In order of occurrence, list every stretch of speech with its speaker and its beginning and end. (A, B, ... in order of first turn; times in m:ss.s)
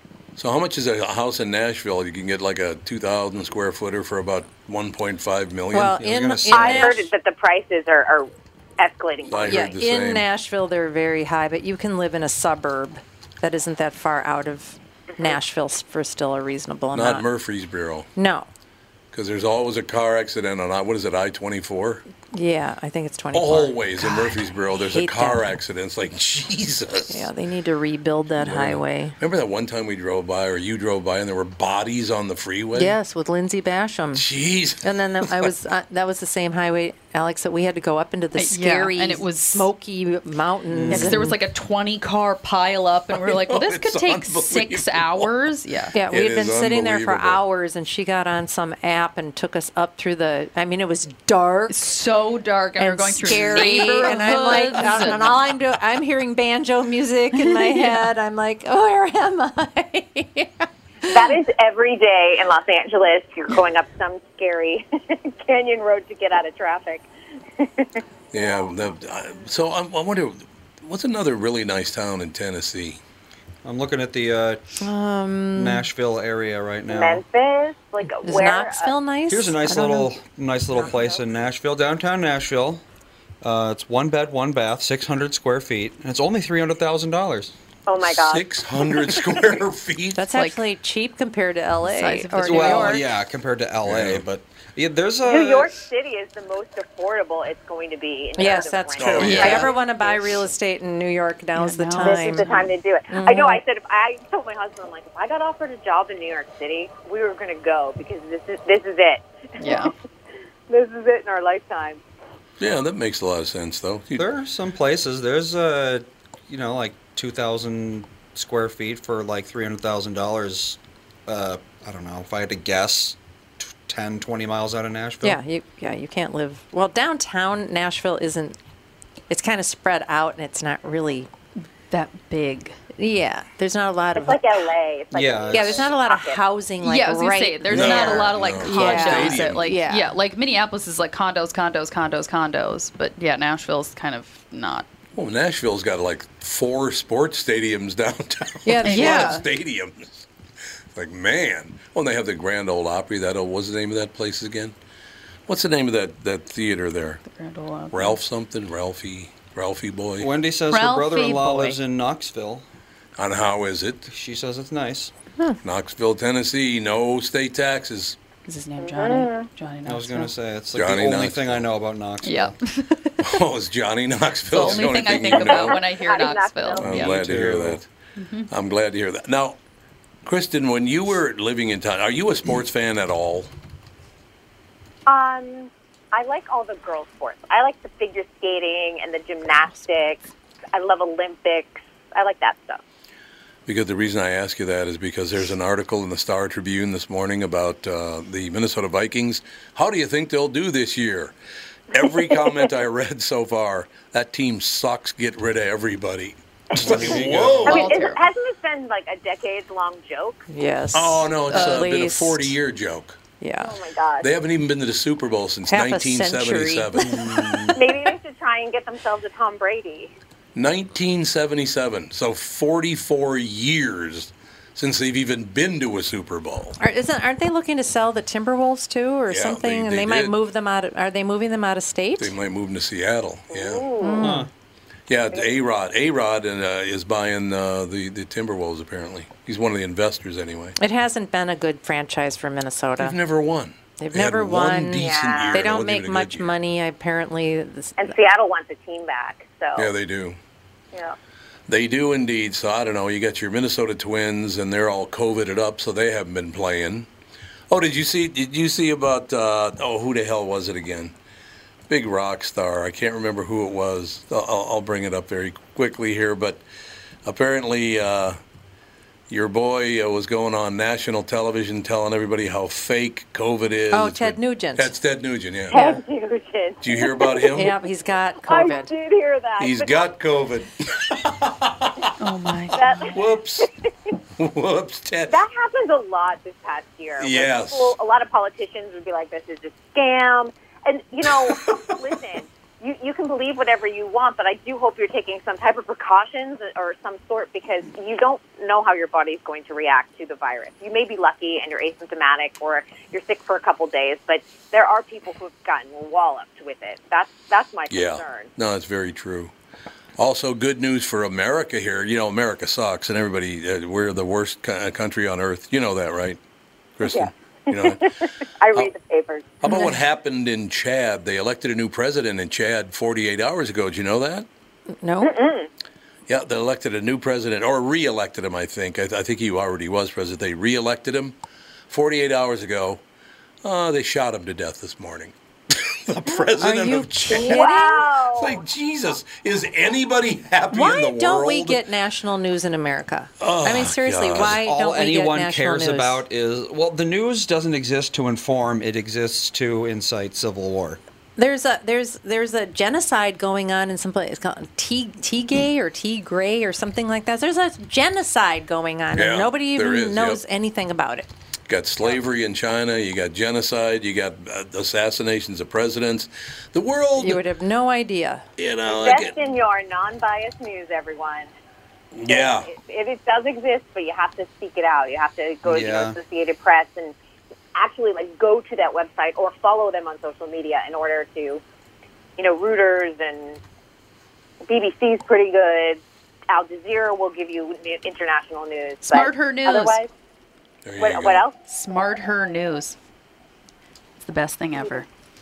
0:00.4-0:06.0 A
0:05.7-0:07.1 B
0:05.9-0:07.0 C
0:06.5-0:09.7 D
0:09.3-0:10.3 A
0:09.4-0:17.2 B
0:16.9-0:18.1 A
0:18.2-0:18.5 B
0:19.1-0:22.0 A
0:22.3-0:25.5 B
0:23.3-0:27.3 A
0:27.1-0:29.2 B
0:28.4-0:33.0 A
0:32.7-0:34.2 B
0:34.1-0:35.5 A
0:34.8-0:41.4 B
0:38.4-0:39.7 E
0:40.7-0:41.3 C
0:40.9-0:45.9 E
0:43.1-0:45.3 A
0:45.9-0:52.0 B
0:46.1-0:47.4 A
0:51.7-0:55.3 E
0:52.8-1:01.4 B
0:57.4-0:58.0 E
1:01.1-1:07.0 D
1:07.6-1:08.0 D
1:08.3-1:13.0 A
1:13.6-1:14.6 C
1:14.8-1:15.9 B
1:15.5-1:17.2 C
1:16.9-1:18.9 D
1:18.2-1:20.1 B
1:19.3-1:22.8 C
1:23.4-1:27.5 C
1:27.9-1:29.2 D
1:28.0-1:30.2 A
1:30.2-1:33.0 B
1:30.3-1:30.6 E
1:31.8-1:33.0 E
1:32.4-1:35.8 C
1:33.8-1:34.2 A
1:35.2-1:40.4 D
1:38.4-1:42.5 B
1:39.0-1:39.7 A
1:39.2-1:39.7 E
1:41.6-1:42.7 E
1:42.0-1:49.9 D
1:43.1-1:43.6 B
1:49.6-1:49.9 E
1:50.7-1:52.0 D
1:52.6-1:54.2 A
1:54.2-2:05.4 C
2:05.2-2:08.6 B
2:09.3-2:11.3 B
2:11.9-2:12.8 E
2:13.0-2:14.6 B
2:14.2-2:16.4 D
2:15.1-2:15.9 C
2:15.5-2:20.1 B
2:16.8-2:24.9 E
2:17.7-2:19.7 A
2:25.1-2:30.3 A
2:28.6-2:29.4 B
2:28.8-2:29.4 E
2:30.9-2:34.7 A
2:35.5-2:37.2 A
2:37.2-2:38.2 E
2:37.9-2:40.3 A
2:40.2-2:42.6 C
2:40.7-2:41.8 E
2:43.2-2:44.1 A
2:44.1-2:45.1 C
2:45.6-2:48.2 A
2:48.4-2:50.3 E
2:48.8-2:49.5 D
2:49.8-2:52.6 C
2:50.7-2:51.7 A
2:52.2-2:53.4 E
2:53.2-2:55.8 A
2:54.5-2:57.1 E
2:55.0-2:57.0 D
2:56.8-2:57.9 A
2:56.8-2:57.8 C
2:58.2-2:58.5 E
2:58.5-2:59.6 A
3:00.2-3:03.5 A
3:05.1-3:12.8 D
3:13.6-3:21.4 A
3:21.9-3:27.9 A
3:22.0-3:22.6 D
3:26.8-3:27.9 C
3:26.8-3:30.4 D
3:27.6-3:28.2 E
3:30.5-3:32.6 B
3:30.9-3:33.2 A
3:31.5-3:31.8 E
3:33.4-3:33.8 B
3:33.6-3:34.3 D
3:34.2-3:37.5 A
3:35.7-3:37.4 B
3:37.0-3:37.8 C
3:37.7-3:40.1 D
3:40.5-3:46.8 A
3:46.8-3:52.3 B
3:49.3-3:50.4 A
3:52.2-3:53.9 A
3:53.5-3:54.4 D
3:54.0-3:54.5 B
3:54.2-3:54.5 C
3:55.1-4:00.8 A
4:00.8-4:03.2 B
4:03.0-4:06.5 A
4:04.0-4:08.2 B
4:05.0-4:05.7 D
4:08.0-4:09.9 D
4:09.8-4:10.4 A
4:11.7-4:17.1 A
4:17.7-4:21.1 A
4:21.9-4:26.6 A
4:27.2-4:28.4 A
4:29.3-4:35.8 A
4:33.9-4:34.9 B
4:35.7-4:36.0 B
4:35.7-4:37.6 D
4:36.8-4:37.7 A
4:37.5-4:38.9 B
4:38.5-4:40.1 D
4:39.6-4:42.1 A
4:42.2-4:43.0 E
4:42.7-4:43.2 D
4:43.0-4:43.7 A
4:44.4-4:45.4 A
4:45.3-5:08.5 D
4:47.2-4:48.0 A
4:51.2-4:51.9 A
5:07.9-5:09.5 A
5:10.2-5:16.4 A
5:17.0-5:18.0 A
5:17.1-5:19.6 D
5:19.6-5:24.5 A
5:19.6-5:20.0 B
5:24.9-5:25.4 B
5:25.2-5:25.7 D
5:26.3-5:31.4 A
5:31.9-5:33.0 A
5:33.6-5:37.6 A
5:36.6-5:38.1 B
5:37.3-5:38.6 D
5:38.4-5:41.8 A
5:40.7-5:46.2 B
5:43.4-5:44.6 A
5:44.6-5:51.0 C
5:51.4-6:01.3 B
5:59.1-6:00.4 A
6:01.7-6:07.4 A
6:07.2-6:08.4 B
6:08.6-6:09.3 A
6:08.9-6:11.5 D
6:12.1-6:12.7 A
6:12.3-6:17.1 D
6:15.6-6:16.2 C
6:17.7-6:21.6 D
6:22.4-6:23.6 D
6:24.6-6:30.1 D
6:29.0-6:30.0 E
6:30.8-6:31.4 A
6:31.0-6:31.6 D
6:31.7-6:33.0 E
6:34.2-6:35.1 E